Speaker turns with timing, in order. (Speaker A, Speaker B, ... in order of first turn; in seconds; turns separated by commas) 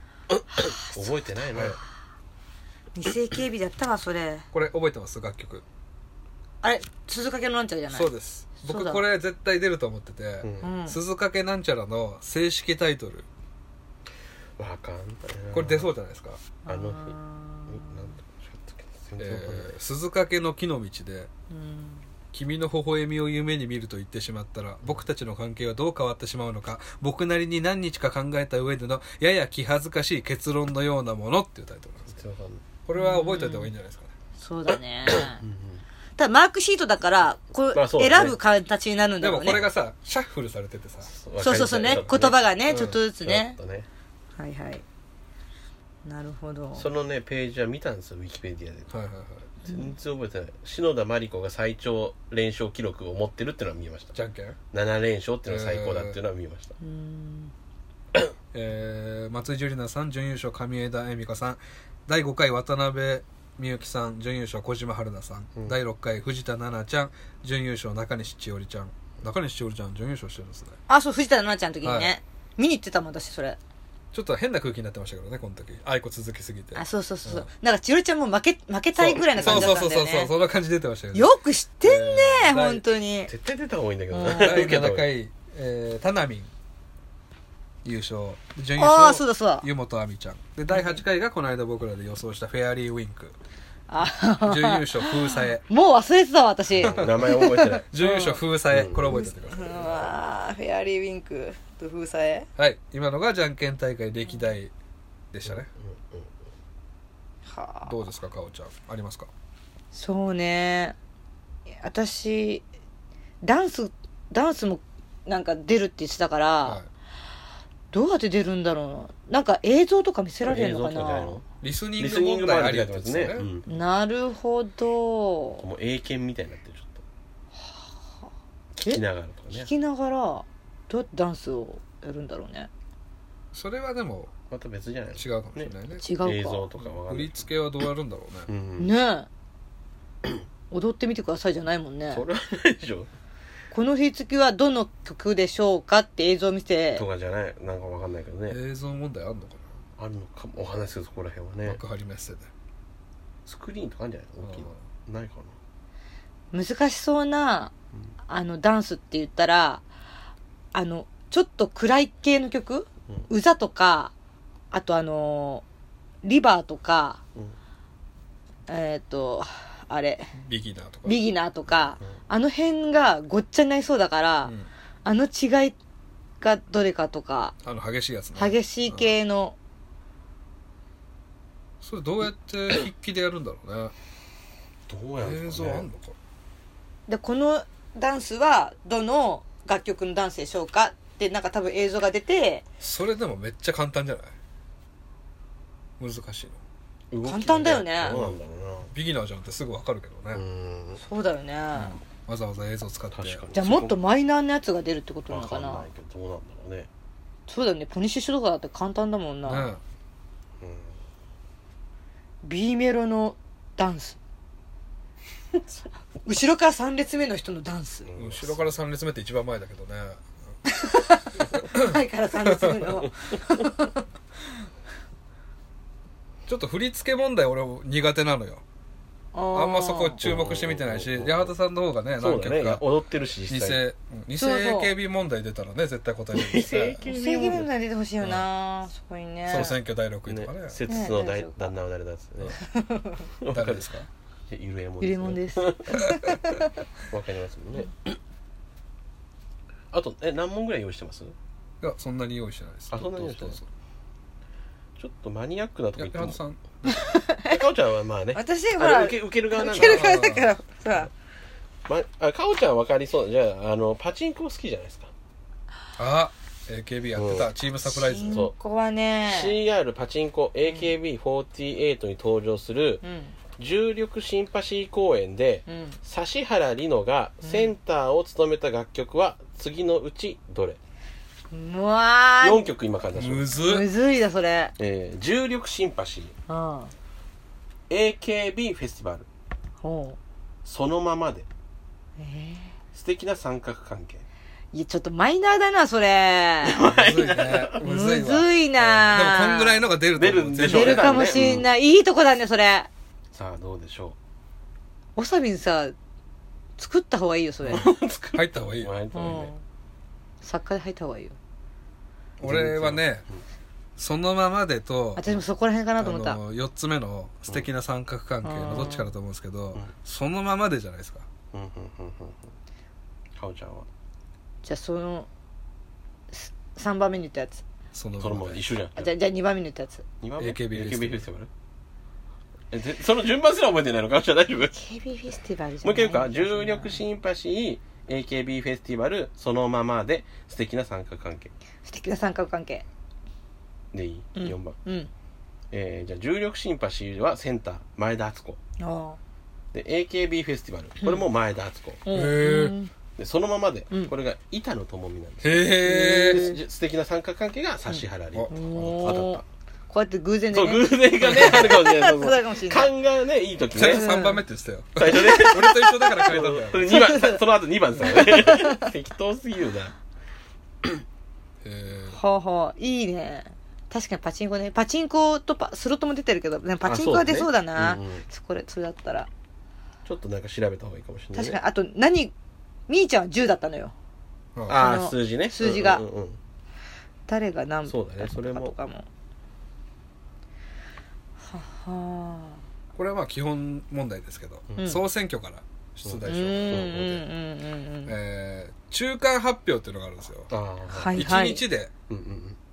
Speaker A: 0.3-1.8, Speaker B: 0.5-1.1, Speaker B: 2.9-4.5, Speaker C: 4.5-5.6, Speaker B: 6.6-9.0, Speaker C: 7.9-13.3, Speaker A: 10.4-10.7, Speaker B: 10.6-11.0, Speaker A: 14.6-15.9, Speaker C: 15.5-16.4, Speaker B: 16.6-18.1, Speaker A: 16.6-19.7, Speaker C: 19.2-21.3, Speaker B: 21.5-22.0, Speaker C: 22.3-32.1, Speaker A: 32.1-32.6, Speaker C: 32.9-34.1, Speaker B: 32.9-33.7, Speaker B: 34.4-35.4, Speaker A: 35.0-35.8, Speaker B: 36.2-39.6, Speaker A: 37.7-38.4, Speaker C: 39.2-41.1, Speaker A: 41.1-42.4, Speaker B: 41.4-43.5, Speaker C: 42.7-43.0, Speaker A: 43.2-43.9, Speaker B: 44.4-44.8, Speaker B: 46.0-46.9, Speaker A: 46.8-48.9, Speaker C: 48.9-49.5, Speaker B: 49.6-49.9, Speaker A: 49.7-54.1, Speaker C: 54.1-54.6, Speaker A: 54.7-56.7, Speaker C: 55.5-56.2, Speaker B: 56.8-57.5, Speaker C: 58.5-70.8, Speaker B: 70.9-73.6, Speaker C: 71.8-72.1, Speaker C: 74.1-77.5, Speaker B: 76.7-80.3, Speaker A: 79.1-79.8, Speaker C: 79.4-82.8, Speaker B: 81.1-83.3, Speaker A: 83.3-85.0, Speaker B: 84.1-84.7, Speaker C: 84.4-86.5, Speaker C: 87.8-93.3, Speaker B: 88.8-89.7, Speaker B: 90.7-91.0, Speaker B: 93.9-98.4, Speaker C: 94.4-95.6, Speaker A: 96.8-97.8, Speaker C: 96.8-97.3, Speaker C: 97.9-100.0, Speaker A: 98.7-99.2, Speaker B: 99.1-102.5, Speaker C: 102.6-104.7, Speaker C: 105.3-105.7, Speaker A: 105.5-106.3, Speaker B: 107.5-108.0, Speaker C: 107.9-109.3, Speaker B: 109.9-111.0, Speaker B: 111.8-112.6, Speaker B: 113.4-116.8, Speaker B: 117.9-121.4, Speaker A: 120.5-121.4, Speaker C: 121.6-123.4, Speaker A: 122.0-123.7, Speaker B: 123.7-125.6, Speaker A: 125.6-127.0, Speaker A: 128.7-129.7, Speaker B: 129.5-132.7, Speaker C: 133.5-134.3, Speaker A: 134.5-137.4, Speaker C: 135.2-136.0, Speaker B: 136.0-136.7, Speaker C: 137.1-138.5, Speaker A: 138.5-138.9, Speaker B: 138.8-139.3, Speaker B: 140.7-142.2, Speaker A: 142.1-143.1, Speaker B: 143.7-147.0, Speaker A: 146.9-148.6, Speaker C: 148.5-149.7, Speaker A: 150.0-151.8, Speaker C: 151.6-152.5, Speaker A: 153.4-155.5, Speaker C: 154.4-154.7, Speaker B: 156.5-157.7, Speaker B: 158.3-159.8, Speaker B: 160.7-164.1, Speaker B: 164.7-165.6, Speaker B: 166.2-167.2, Speaker B: 168.7-170.3, Speaker C: 170.3-171.2, Speaker B: 171.1-174.5, Speaker B: 175.0-175.8, Speaker B: 176.4-177.5, Speaker C: 177.6-179.1, Speaker B: 178.3-179.6, Speaker C: 181.8-183.9, Speaker A: 184.9-185.9, Speaker C: 185.2-186.1, Speaker B: 187.1-192.6, Speaker C: 192.8-194.3, Speaker C: 196.0-196.6, Speaker A: 197.1-198.9, Speaker B: 197.2-198.2, Speaker C: 198.1-198.4, Speaker C: 198.9-200.4, Speaker A: 200.3-201.0, Speaker B: 201.0-202.0, Speaker C: 201.8-203.4, Speaker A: 203.1-204.0, Speaker B: 203.5-205.9, Speaker A: 205.3-206.9, Speaker B: 207.5-209.7, Speaker C: 209.4-209.8, Speaker A: 210.6-211.0, Speaker B: 212.4-214.2, Speaker B: 216.2-218.1, Speaker A: 218.1-218.6, Speaker C: 218.2-220.2, Speaker B: 220.7-224.0, Speaker C: 221.7-222.9, Speaker C: 226.4-228.6, Speaker B: 229.3-230.2, Speaker C: 229.5-232.8, Speaker A: 230.2-231.5, Speaker A: 232.2-233.8, Speaker C: 233.5-237.0, Speaker B: 234.3-234.9, Speaker A: 236.3-237.7, Speaker B: 237.0-239.8, Speaker C: 239.5-240.8, Speaker A: 240.3-242.6, Speaker B: 240.9-241.7, Speaker B: 242.6-243.3, Speaker A: 243.4-243.9, Speaker C: 243.5-244.1, Speaker A: 244.5-246.0, Speaker B: 245.0-246.7, Speaker C: 246.0-246.3, Speaker A: 247.1-248.2, Speaker A: 249.9-251.3, Speaker C: 251.8-253.7, Speaker A: 252.9-253.6, Speaker A: 255.0-256.4, Speaker C: 255.9-256.9, Speaker B: 256.8-257.6, Speaker A: 257.4-260.2, Speaker B: 258.3-261.1, Speaker C: 259.7-260.5, Speaker A: 261.9-265.1, Speaker C: 266.0-268.4, Speaker A: 267.1-267.5, Speaker B: 267.9-269.6, Speaker A: 269.2-273.0, Speaker B: 273.0-273.3, Speaker A: 273.6-280.8, Speaker B: 275.7-276.0, Speaker B: 277.4-277.7, Speaker B: 281.5-282.6, Speaker A: 282.4-283.5, Speaker C: 283.1-283.9, Speaker B: 283.6-284.7, Speaker A: 284.8-286.3, Speaker B: 286.5-286.9, Speaker A: 287.9-289.3, Speaker B: 289.8-290.2, Speaker A: 290.6-291.5, Speaker B: 292.2-292.7, Speaker A: 292.9-294.2, Speaker B: 294.7-296.8, Speaker A: 296.6-297.8, Speaker C: 296.9-301.2, Speaker B: 297.8-299.8, Speaker A: 300.1-301.7, Speaker B: 300.6-302.9, Speaker A: 303.3-304.1, Speaker B: 305.1-305.9, Speaker B: 306.8-307.9, Speaker C: 307.6-308.9, Speaker A: 307.7-309.5, Speaker B: 309.1-309.6, Speaker B: 310.4-311.4, Speaker C: 312.4-313.2, Speaker A: 312.4-313.4, Speaker C: 314.0-315.2, Speaker B: 315.1-316.4, Speaker C: 316.0-321.3, Speaker B: 318.4-319.1, Speaker A: 321.5-322.5, Speaker A: 323.4-323.9, Speaker B: 324.6-325.3, Speaker B: 326.3-327.6, Speaker C: 327.9-328.6, Speaker A: 328.2-329.1, Speaker B: 329.0-330.0, Speaker A: 330.2-331.5, Speaker C: 330.4-331.2, Speaker A: 332.7-334.8, Speaker B: 334.7-337.0, Speaker A: 335.8-341.5, Speaker B: 341.8-342.8, Speaker A: 343.9-344.8, Speaker B: 344.4-345.1, Speaker A: 345.7-348.6, Speaker B: 348.8-349.2, Speaker A: 349.7-352.1, Speaker B: 352.0-352.9, Speaker C: 352.1-352.8, Speaker A: 353.2-359.4, Speaker C: 355.4-356.4, Speaker B: 355.8-356.6, Speaker B: 357.9-362.9, Speaker C: 358.3-359.2, Speaker A: 360.5-364.2, Speaker C: 361.2-361.7, Speaker C: 363.7-367.0, Speaker B: 363.8-364.4, Speaker A: 365.0-369.9, Speaker B: 365.1-365.9, Speaker B: 366.9-367.4, Speaker B: 368.0-368.9, Speaker C: 371.6-372.2, Speaker B: 372.1-379.3, Speaker A: 376.8-378.2, Speaker A: 380.0-381.6, Speaker B: 381.3-382.3, Speaker B: 382.9-383.9, Speaker B: 384.7-386.0, Speaker A: 384.7-386.4, Speaker B: 387.3-389.1, Speaker A: 387.9-388.7, Speaker B: 391.5-392.6, Speaker C: 392.9-396.9, Speaker A: 394.7-395.0, Speaker A: 396.0-397.2, Speaker B: 396.2-398.1, Speaker C: 398.1-400.5, Speaker A: 400.5-401.2, Speaker B: 400.9-401.6, Speaker C: 401.1-401.9, Speaker A: 402.1-402.6